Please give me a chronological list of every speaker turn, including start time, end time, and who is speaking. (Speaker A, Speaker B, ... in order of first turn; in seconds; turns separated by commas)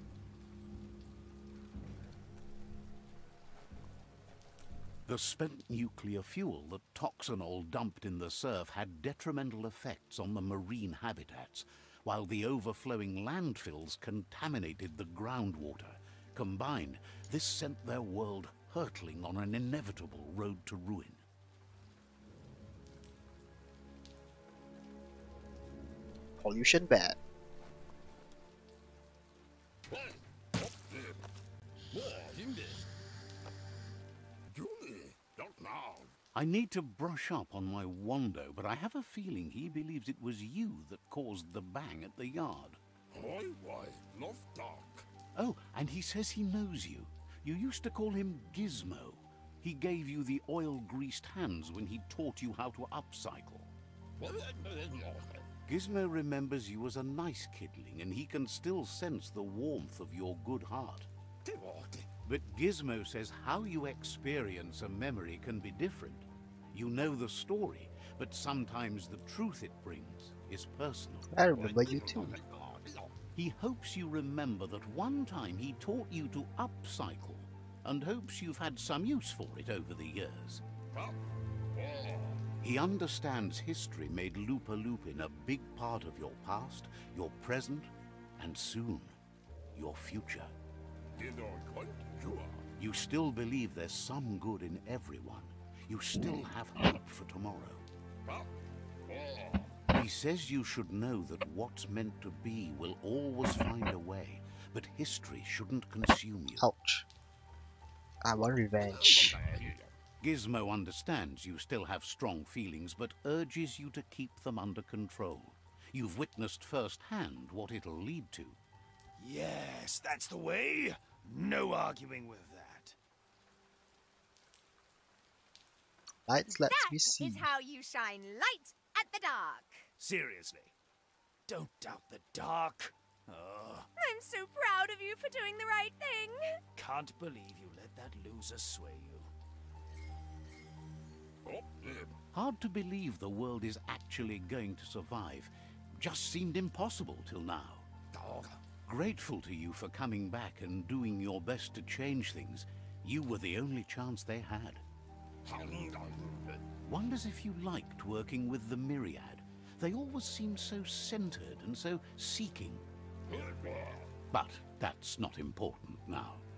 Speaker A: 5.1-21.2, Speaker B: 26.4-27.2, Speaker C: 29.9-31.2, Speaker C: 31.9-32.8, Speaker C: 34.5-36.1, Speaker A: 36.3-42.8, Speaker C: 43.1-45.1, Speaker A: 45.4-53.7, Speaker C: 54.2-55.5, Speaker A: 55.7-61.1, Speaker C: 61.4-62.1, Speaker A: 62.2-71.3, Speaker B: 71.3-72.4, Speaker C: 71.5-73.1, Speaker A: 73.3-80.6, Speaker C: 80.9-81.2, Speaker C: 81.7-82.5, Speaker A: 82.6-89.1, Speaker A: 89.7-90.5, Speaker C: 91.2-92.7, Speaker A: 92.8-97.8, Speaker C: 98.2-98.5, Speaker C: 99.1-99.8, Speaker A: 99.9-106.6, Speaker B: 106.6-107.1, Speaker B: 108.2-109.4, Speaker C: 108.9-109.9, Speaker A: 110.2-118.6, Speaker D: 119.2-123.0, Speaker B: 126.3-127.5, Speaker E: 126.5-129.9, Speaker D: 130.0-130.7, Speaker D: 131.5-133.9, Speaker E: 134.0-136.4, Speaker D: 136.7-139.3, Speaker C: 141.4-142.1, Speaker A: 142.3-147.9, Speaker C: 148.1-148.6, Speaker A: 148.8-154.8, Speaker C: 155.4-156.6, Speaker A: 156.8-162.8, Speaker C: 163.3-164.2, Speaker A: 164.3-166.4